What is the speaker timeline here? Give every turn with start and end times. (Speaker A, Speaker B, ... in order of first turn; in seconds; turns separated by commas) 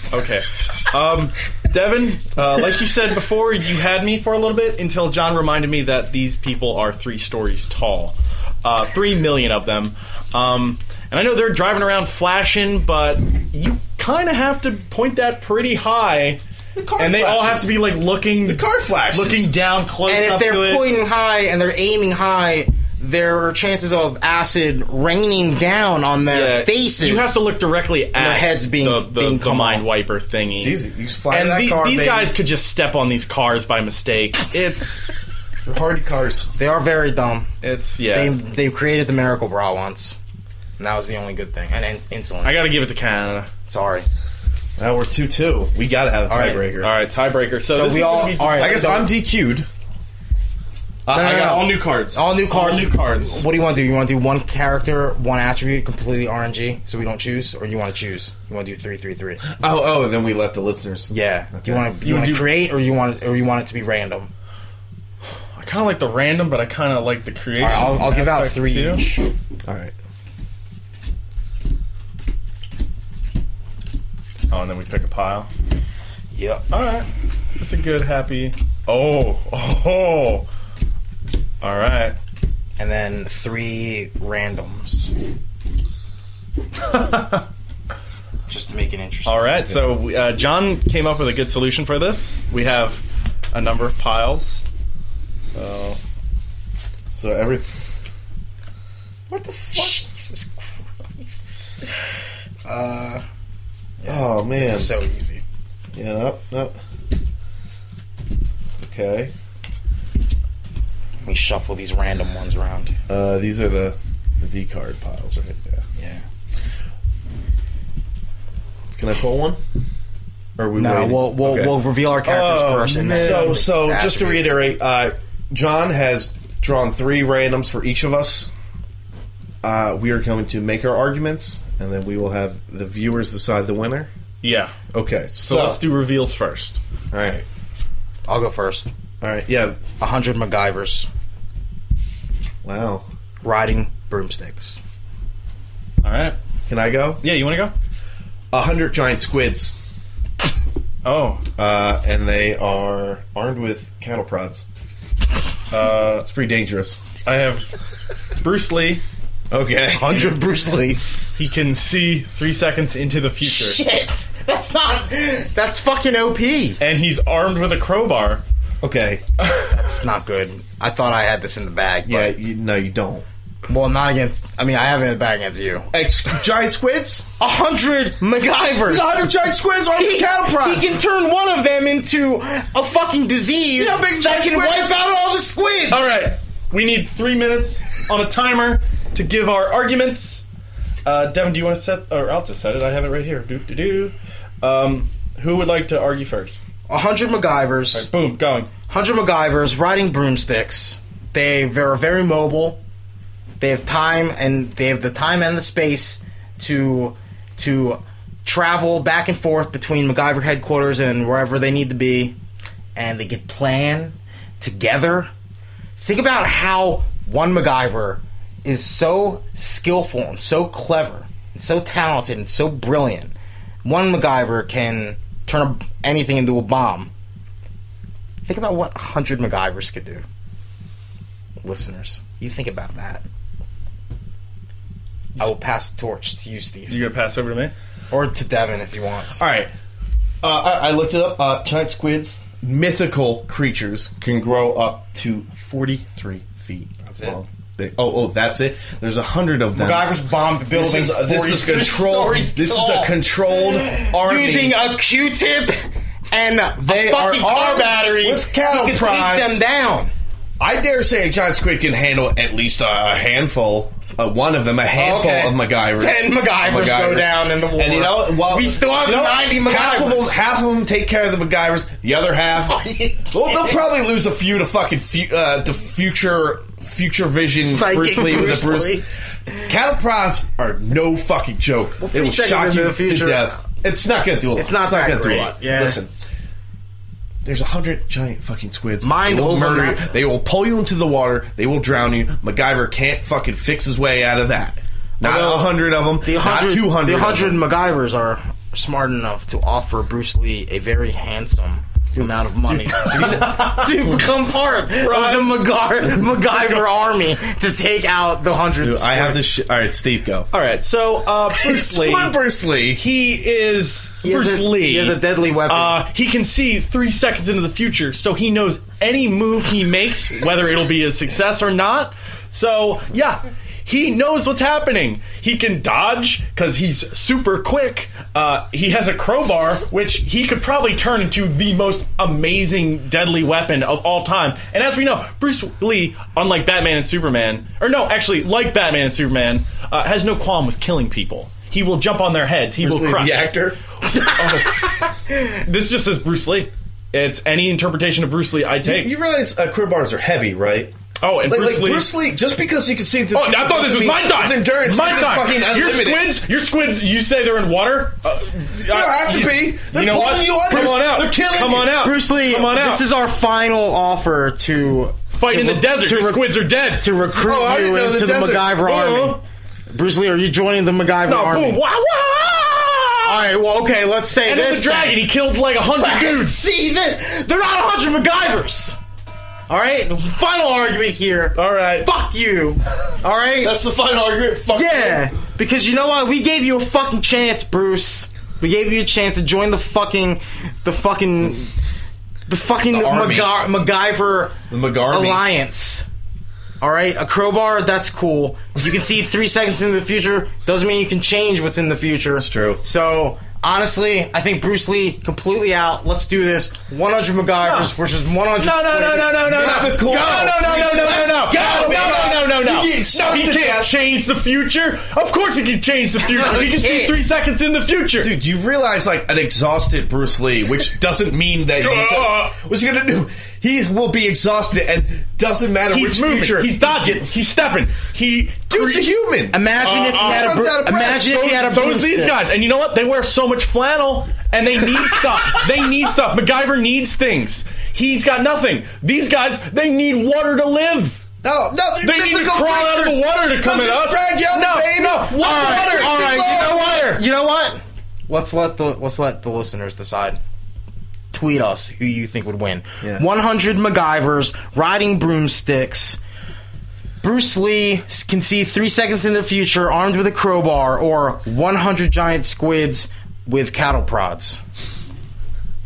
Speaker A: 0.1-16.4, Speaker B: 16.8-17.8, Speaker A: 17.0-20.9, Speaker B: 18.5-19.5, Speaker C: 20.1-27.4, Speaker A: 26.3-35.0, Speaker C: 28.1-29.9, Speaker B: 30.6-32.3, Speaker B: 35.6-36.5, Speaker C: 36.6-37.5, Speaker A: 37.6-38.3, Speaker C: 38.1-40.2, Speaker C: 40.8-42.6, Speaker A: 42.4-43.5, Speaker C: 43.7-44.1, Speaker B: 44.8-46.9, Speaker C: 46.3-46.6, Speaker A: 46.8-49.1, Speaker C: 47.7-49.1, Speaker B: 48.5-49.7, Speaker A: 51.1-53.4, Speaker C: 51.1-59.4, Speaker B: 59.4-61.9, Speaker C: 61.1-64.3, Speaker A: 62.0-62.5, Speaker A: 65.5-69.0, Speaker C: 67.6-69.3, Speaker B: 69.7-69.9, Speaker A: 74.5-75.5, Speaker C: 76.3-76.6, Speaker A: 76.7-77.1, Speaker A: 77.6-80.5, Speaker A: 81.6-82.2, Speaker C: 82.8-85.1, Speaker A: 86.8-87.5, Speaker C: 88.5-89.8, Speaker A: 89.3-94.7, Speaker A: 95.5-96.0, Speaker B: 97.1-98.1, Speaker C: 99.3-101.5, Speaker C: 102.7-103.2, Speaker C: 104.0-105.4, Speaker B: 104.1-104.9, Speaker B: 105.9-106.8, Speaker B: 108.8-109.3, Speaker C: 111.2-113.0, Speaker B: 113.1-115.8, Speaker C: 116.0-116.2, Speaker B: 118.9-119.6, Speaker B: 120.6-121.8, Speaker C: 120.8-124.6, Speaker A: 122.2-123.6, Speaker B: 123.1-128.5, Speaker B: 129.6-134.1, Speaker A: 134.4-134.8, Speaker B: 134.9-135.8, Speaker A: 135.3-136.8, Speaker B: 137.1-137.5, Speaker C: 138.3-138.9, Speaker B: 139.2-139.8, Speaker C: 140.0-141.1, Speaker B: 142.6-143.1, Speaker C: 143.4-144.8, Speaker A: 146.0-146.4, Speaker B: 146.7-147.2, Speaker A: 147.2-147.7, Speaker B: 148.5-149.8, Speaker A: 151.0-151.4, Speaker B: 151.6-154.7, Speaker A: 155.7-156.3, Speaker B: 156.2-157.1, Speaker A: 157.2-157.7, Speaker A: 158.4-159.0, Speaker B: 159.5-160.3, Speaker C: 159.9-161.2, Speaker A: 161.4-163.8, Speaker C: 163.4-166.8, Speaker A: 166.8-168.4, Speaker B: 168.8-169.2, Speaker A: 169.4-169.8, Speaker C: 169.7-172.3, Speaker B: 172.1-173.3, Speaker C: 173.7-175.9, Speaker B: 175.9-177.3, Speaker C: 177.4-179.2, Speaker B: 178.9-181.0, Speaker C: 179.9-186.1, Speaker B: 183.8-185.0, Speaker A: 185.9-190.4, Speaker A: 191.1-196.6, Speaker C: 196.9-198.1, Speaker A: 197.9-198.7, Speaker C: 198.9-202.8, Speaker C: 203.6-212.4, Speaker C: 212.9-215.3, Speaker C: 216.0-227.1, Speaker C: 228.5-230.2, Speaker C: 231.6-233.2, Speaker C: 235.4-237.1, Speaker A: 236.9-237.7, Speaker C: 238.1-239.4, Speaker B: 239.4-239.7, Speaker B: 240.4-250.1, Speaker C: 247.1-247.4, Speaker C: 249.7-260.1, Speaker B: 250.7-254.8, Speaker B: 256.8-259.6, Speaker B: 260.6-272.8, Speaker C: 265.0-270.4, Speaker C: 272.6-273.7, Speaker B: 273.3-279.0, Speaker C: 277.6-279.0, Speaker B: 279.7-286.1, Speaker C: 282.0-283.6, Speaker C: 284.6-286.0, Speaker B: 287.4-297.6, Speaker C: 289.0-290.1, Speaker C: 295.2-309.6, Speaker A: 302.9-304.0, Speaker A: 305.0-305.6, Speaker B: 308.8-310.5, Speaker A: 310.5-312.4, Speaker B: 311.5-313.0, Speaker A: 312.9-343.5, Speaker C: 314.2-316.0, Speaker B: 342.8-343.8, Speaker A: 344.3-349.1, Speaker B: 348.8-356.4, Speaker A: 351.2-352.1, Speaker A: 353.3-363.0, Speaker B: 358.9-361.9, Speaker C: 361.7-366.5, Speaker A: 365.3-367.1, Speaker C: 367.0-371.8, Speaker B: 367.3-368.8, Speaker A: 368.8-369.4, Speaker A: 371.3-373.5, Speaker C: 373.2-375.3, Speaker A: 374.4-376.6, Speaker C: 375.9-379.0, Speaker C: 379.7-383.8, Speaker A: 381.6-382.1, Speaker B: 383.6-385.3, Speaker C: 384.7-391.7, Speaker C: 392.5-394.6, Speaker B: 392.9-393.5, Speaker B: 394.7-395.4, Speaker C: 395.1-396.1, Speaker C: 396.8-412.3, Speaker B: 402.4-402.8, Speaker A: 407.6-407.9, Speaker A: 408.6-418.3, Speaker B: 409.4-414.0, Speaker C: 416.2-417.1, Speaker B: 418.2-427.3, Speaker A: 421.8-422.5, Speaker A: 425.9-429.1, Speaker B: 428.7-431.4, Speaker C: 429.5-432.4, Speaker A: 429.8-430.6, Speaker A: 431.2-441.2, Speaker B: 441.4-447.2, Speaker A: 442.0-447.1, Speaker C: 445.2-450.4, Speaker C: 451.3-456.2, Speaker C: 457.2-464.6